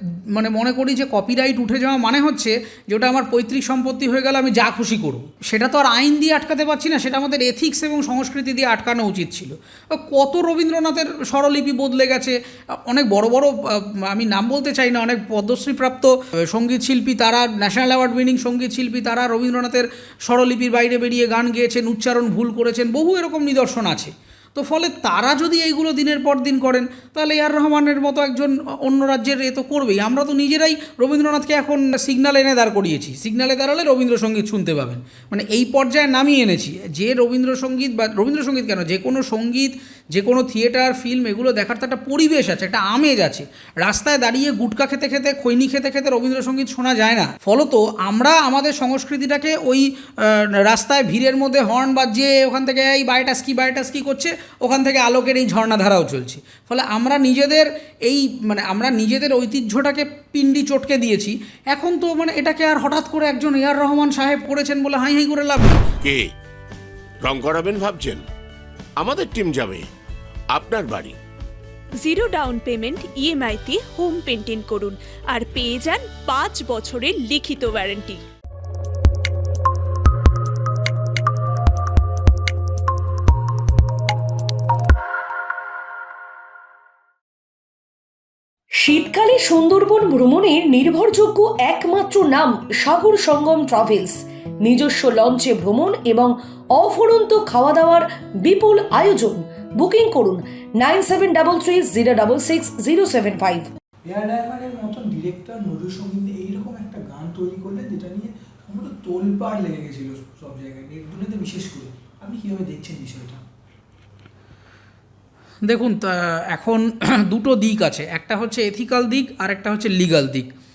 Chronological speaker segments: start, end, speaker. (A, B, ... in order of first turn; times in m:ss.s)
0:00.3-1:05.9 A
1:06.0-1:06.3 B
1:07.2-1:08.2 B
1:09.0-1:09.9 B
1:10.5-1:11.2 B
1:12.0-1:18.2 C
1:28.8-1:43.7 D
1:44.1-1:53.4 E
1:55.6-2:00.5 A